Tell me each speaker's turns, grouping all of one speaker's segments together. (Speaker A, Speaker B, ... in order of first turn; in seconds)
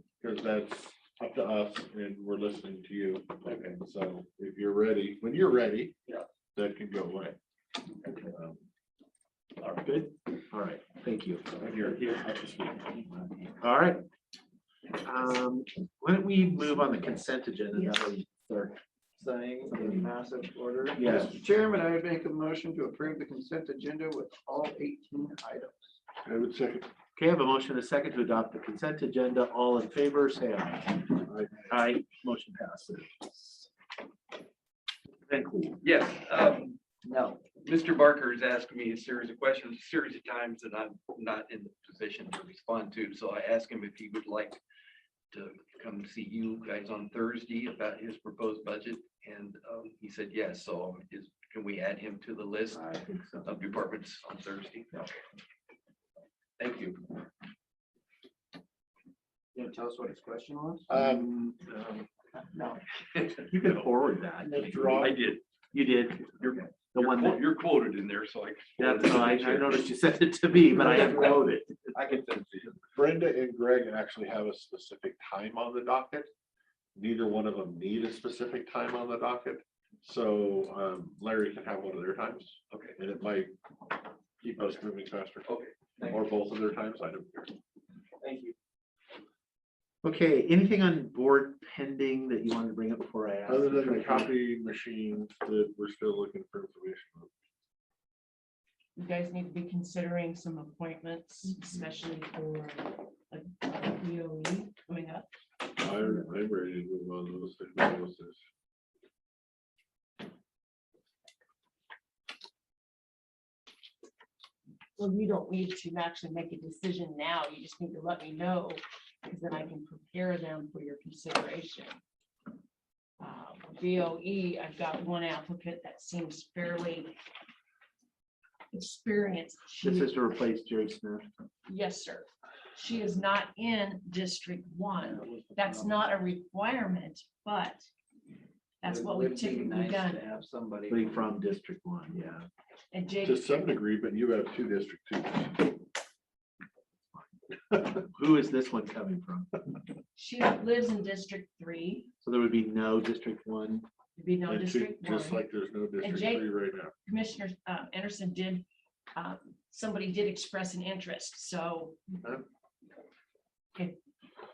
Speaker A: 0.2-6.0, 6.5-7.4, 8.1-8.6, 26.2-26.9, 60.9-61.6, 64.4-65.2, 73.0-76.3, 77.0-83.5, 84.4-87.5, 93.5-97.3, 105.8-108.4, 143.2-145.8, 154.5-156.9
Speaker B: 3.5-3.8, 35.8-36.8, 37.4-44.6, 45.3-55.1, 56.6-57.1, 64.9-65.4, 66.4-69.9, 70.7-71.4, 71.9-72.8, 82.7-83.0, 85.5-85.9
Speaker C: 9.8-12.0, 13.6-14.1, 15.0-18.8, 19.7-20.1, 20.9-21.4, 27.2-33.7, 35.3-35.8, 52.8-53.7, 63.5-65.1, 65.7-67.4, 68.8-71.8, 90.0-94.3, 129.8-131.3, 140.9-142.5, 147.9-149.5, 152.2-153.9
Speaker D: 19.2-25.9, 37.0-37.4, 59.5-60.9, 62.5-62.8, 88.2-88.5, 135.1-136.0, 138.8-141.3
Speaker E: 99.0-105.3, 115.0-122.0, 123.2-127.2, 128.7-130.1, 131.7-137.9, 138.8-140.2, 142.9-143.5, 150.2-152.1, 154.2-155.4, 156.0-156.5, 157.1-162.1